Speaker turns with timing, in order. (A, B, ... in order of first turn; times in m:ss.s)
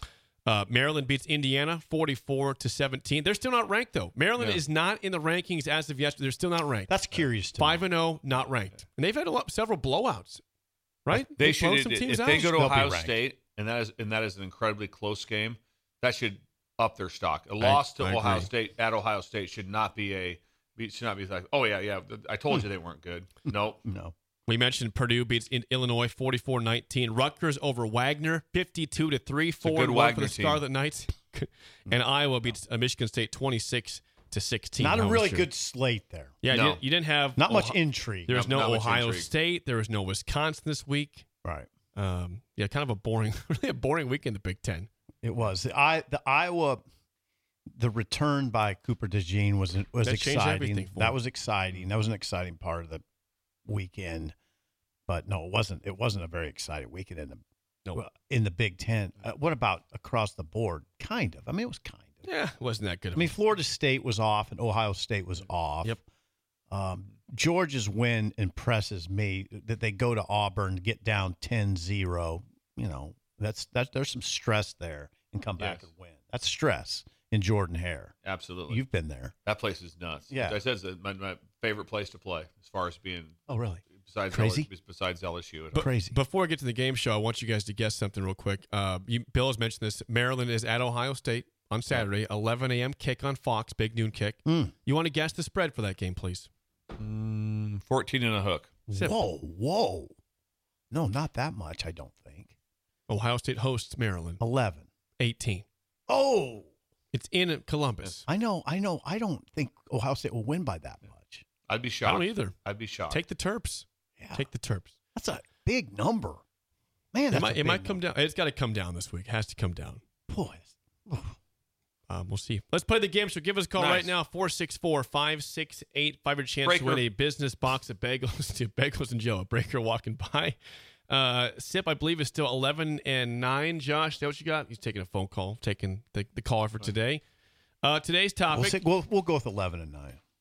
0:00.4-0:10.4 A
0:06.9-0:07.9 B
0:11.0-0:12.5 A
0:11.1-0:23.8 C
0:12.4-0:13.2 B
0:17.6-0:18.5 A
0:23.8-0:24.1 B
0:24.5-0:35.5 A
0:29.6-0:30.6 C
0:34.8-0:36.4 B
0:36.4-0:41.3 A
0:36.5-0:36.8 C
0:37.4-0:38.3 B
0:38.3-0:39.3 C
0:41.4-0:41.7 B
0:41.9-0:44.9 A
0:45.2-0:46.8 B
0:47.8-0:53.0 B
0:50.0-0:51.2 A
0:53.7-0:54.3 B
0:55.1-0:57.4 B
0:57.9-1:02.3 B
1:02.2-1:03.4 A
1:03.2-1:06.0 B
1:06.7-1:18.2 B
1:15.6-1:15.8 C
1:18.2-1:18.8 C
1:18.7-1:19.4 B
1:19.5-1:25.8 C
1:20.3-1:20.6 B
1:23.5-1:24.7 B
1:25.7-1:36.5 A
1:25.7-1:26.2 B
1:34.4-1:34.7 B
1:37.0-1:38.8 C
1:38.9-1:39.2 A
1:38.9-1:40.1 B
1:40.9-1:42.5 B
1:43.1-1:44.4 A
1:44.4-1:44.9 B
1:45.2-1:45.7 A
1:46.1-1:46.7 B
1:47.1-1:48.3 A
1:48.3-1:51.4 B
1:51.7-1:53.2 C
1:52.0-1:52.6 A
1:53.1-1:54.9 A
1:54.2-1:54.5 B
1:55.2-1:56.4 B
1:57.1-1:58.0 B
1:57.3-2:00.0 A
2:00.3-2:01.4 B
2:02.1-2:10.6 A
2:03.8-2:04.1 C
2:06.6-2:07.1 C
2:11.1-2:17.2 A
2:17.8-2:18.8 A
2:18.5-2:20.2 B